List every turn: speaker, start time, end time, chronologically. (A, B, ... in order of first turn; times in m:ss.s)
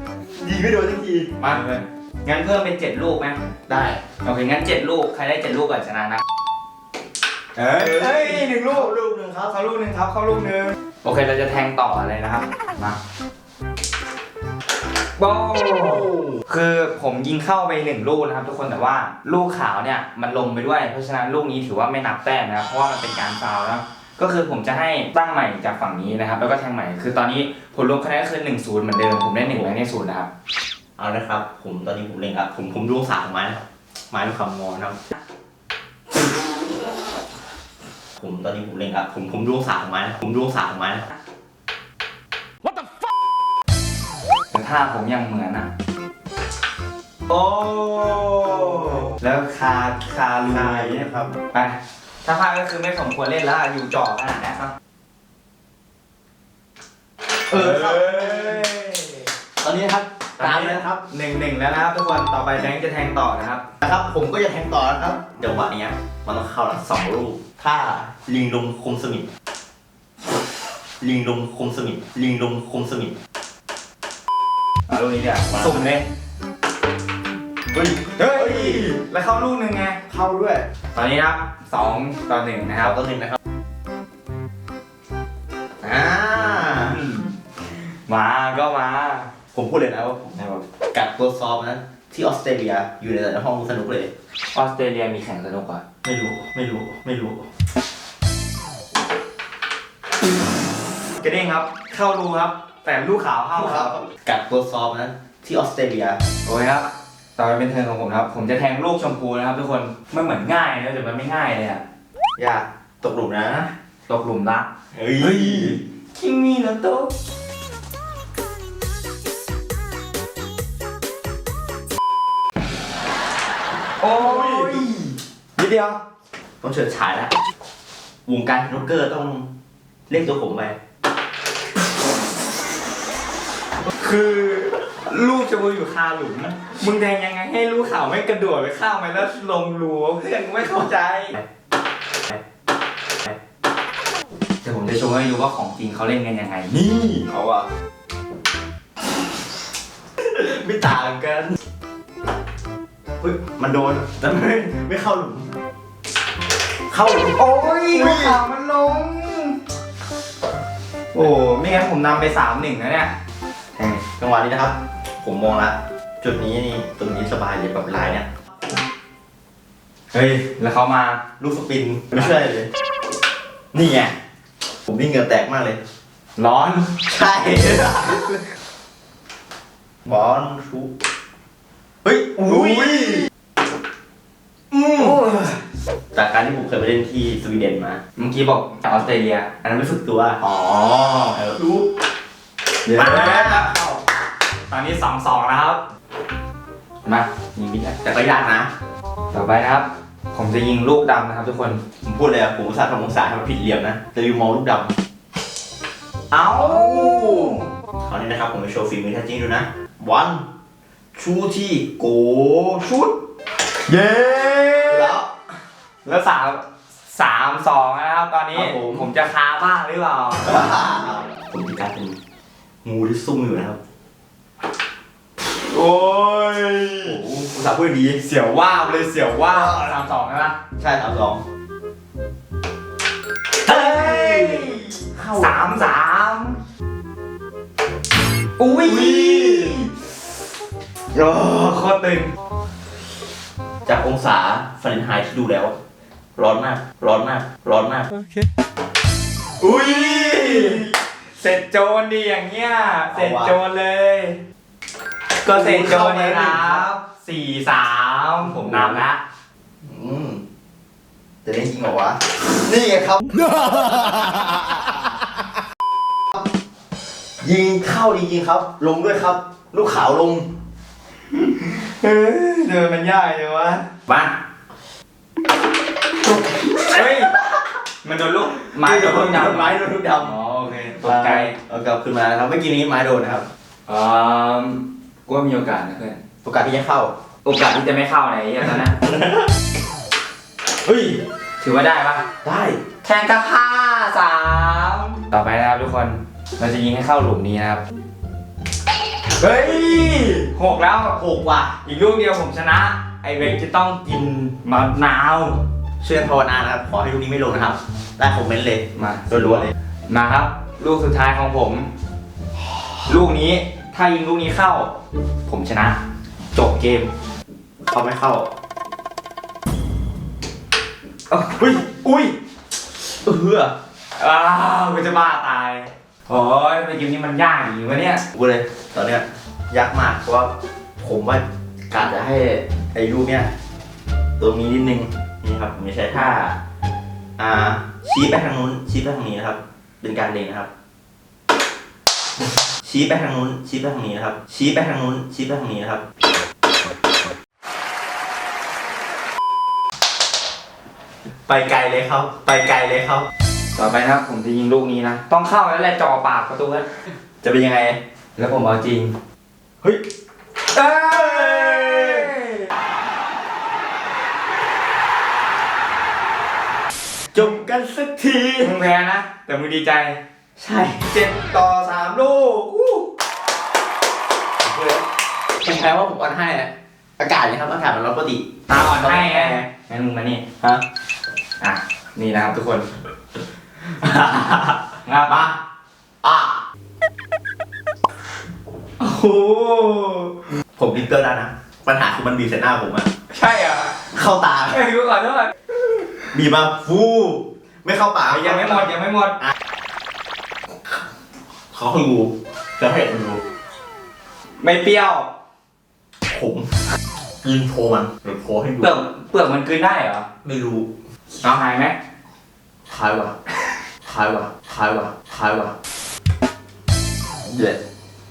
0:00.4-0:01.6 A
0:01.4-0:03.4 B
0:03.7-0:04.0 A
0:04.1-0:06.2 B
0:07.6-0:08.9 B
0:07.7-0:09.6 A
0:09.5-0:13.0 B
0:15.2-0:30.3 B
0:15.8-0:16.4 A
0:29.4-0:29.7 A
0:31.0-0:33.6 A
0:34.1-0:35.0 A
0:38.2-0:41.0 A
0:44.5-0:45.7 B
0:47.3-0:49.1 A
0:49.2-0:54.7 B
0:50.5-0:51.4 A
0:57.5-0:58.7 A
0:57.5-0:59.2 B
0:59.6-1:01.0 A
1:00.4-1:03.6 B
1:03.8-1:09.3 A
1:11.0-1:13.1 A
1:14.9-1:16.1 B
1:15.5-1:15.9 A
1:17.7-1:18.9 A
1:18.2-1:20.1 B
1:20.1-1:20.6 A
1:20.9-1:23.0 B
1:22.8-1:23.4 A
1:25.8-1:27.0 A
1:26.7-1:27.3 B
1:28.1-1:29.3 B
1:29.5-1:34.1 A
1:34.5-1:35.8 B
1:36.0-1:37.4 A
1:41.2-1:43.9 B
1:43.6-1:46.2 A
1:46.4-1:51.8 B
1:52.4-1:53.7 A
1:54.1-1:57.1 B
1:54.9-1:55.8 A
2:04.0-2:06.0 B
2:04.1-2:04.8 A
2:06.6-2:07.3 A
2:08.2-2:09.5 A
2:10.1-2:10.8 A
2:13.9-2:21.4 B
2:24.6-2:27.3 B
2:27.3-2:27.7 A
2:30.2-2:31.6 A
2:33.2-2:35.5 A
2:36.9-2:37.4 A
2:37.2-2:39.6 B
2:37.9-2:38.4 A
2:41.1-2:43.1 B
2:43.8-2:44.0 B
2:44.2-2:48.3 A
2:50.1-2:51.2 B
2:51.4-2:52.7 A
2:53.7-2:54.1 B
2:54.9-2:55.8 A
2:56.4-2:57.0 B
2:57.0-2:58.4 A
3:00.0-3:00.9 A
3:02.0-3:03.2 A
3:02.3-3:03.3 B
3:04.7-3:05.3 A
3:05.0-3:05.6 B
3:06.1-3:08.0 A
3:08.2-3:09.5 B
3:09.6-3:10.4 A
3:10.4-3:11.3 B
3:11.3-3:11.9 A
3:12.8-3:13.8 A
3:12.8-3:14.0 B
3:14.7-3:15.8 B
3:17.0-3:18.0 B
3:18.0-3:18.7 A
3:19.3-3:21.8 B
3:22.0-3:24.9 A
3:26.3-3:27.7 B
3:26.5-3:30.4 A
3:31.1-3:33.1 A
3:33.8-3:35.1 B
3:34.9-3:35.3 A
3:36.0-3:40.5 B
3:38.5-3:39.1 A
3:40.4-3:42.2 A
3:42.8-3:43.8 A
3:45.6-3:47.2 B
3:47.0-3:48.2 A
3:48.2-3:50.6 B
3:49.5-3:49.8 A
3:50.8-3:51.4 A
3:53.6-3:56.6 B
3:53.6-3:55.9 A
3:58.6-3:59.9 B
3:58.8-3:59.8 A
4:01.1-4:02.3 B
4:03.8-4:05.8 A
4:06.4-4:08.1 A
4:09.6-4:10.9 B
4:11.4-4:14.4 B
4:13.1-4:13.6 A
4:15.4-4:16.9 A
4:15.4-4:19.2 B
4:18.4-4:19.0 A
4:19.8-4:20.4 A
4:21.4-4:25.0 A
4:27.4-4:30.5 A
4:31.3-4:34.3 B
4:36.2-4:37.6 A
4:36.8-4:37.4 B
4:38.0-4:41.5 B
4:38.7-4:40.4 A
4:41.0-4:43.5 A
4:43.9-4:46.2 B
4:46.4-4:47.1 A
4:47.4-4:49.0 B
4:48.9-4:49.5 A
4:50.8-4:52.3 B
4:52.4-4:52.8 A
4:53.0-4:57.8 B
4:59.4-5:01.2 B
5:01.2-5:01.8 A
5:01.8-5:05.6 B
5:06.0-5:09.7 A
5:09.0-5:11.9 B
5:13.0-5:14.9 B
5:15.5-5:16.0 B
5:16.5-5:17.1 B
5:17.9-5:18.5 A
5:21.3-5:22.3 B
5:23.2-5:23.7 A
5:24.2-5:28.2 B
5:28.3-5:33.5 A
5:34.4-5:36.6 A
5:37.4-5:40.7 A
5:42.8-5:46.0 A
5:51.5-5:53.3 A
5:53.7-5:56.9 B
5:57.4-5:58.0 A
5:58.4-5:59.1 B
6:00.7-6:02.4 B
6:00.9-6:02.5 A
6:07.3-6:08.8 A
6:08.6-6:10.2 B
6:10.6-6:11.1 A
6:11.1-6:13.1 B
6:14.6-6:19.7 A
6:18.7-6:20.4 B
6:21.6-6:22.9 B
6:23.8-6:25.5 A
6:25.0-6:25.5 B
6:26.2-6:26.6 A
6:29.0-6:30.3 B
6:29.5-6:29.8 A
6:30.8-6:33.1 A
6:33.3-6:34.0 B
6:34.1-6:34.8 A
6:34.7-6:35.5 B
6:36.3-6:38.9 A
6:38.3-6:39.4 B
6:41.7-6:43.4 A
6:44.6-6:45.3 B
6:46.3-6:46.7 A
6:47.4-6:49.0 A
6:48.8-6:50.3 B
6:50.4-6:50.9 A
6:51.4-6:52.0 B
6:52.9-6:53.3 A
6:54.0-6:55.7 A
6:57.5-6:57.8 A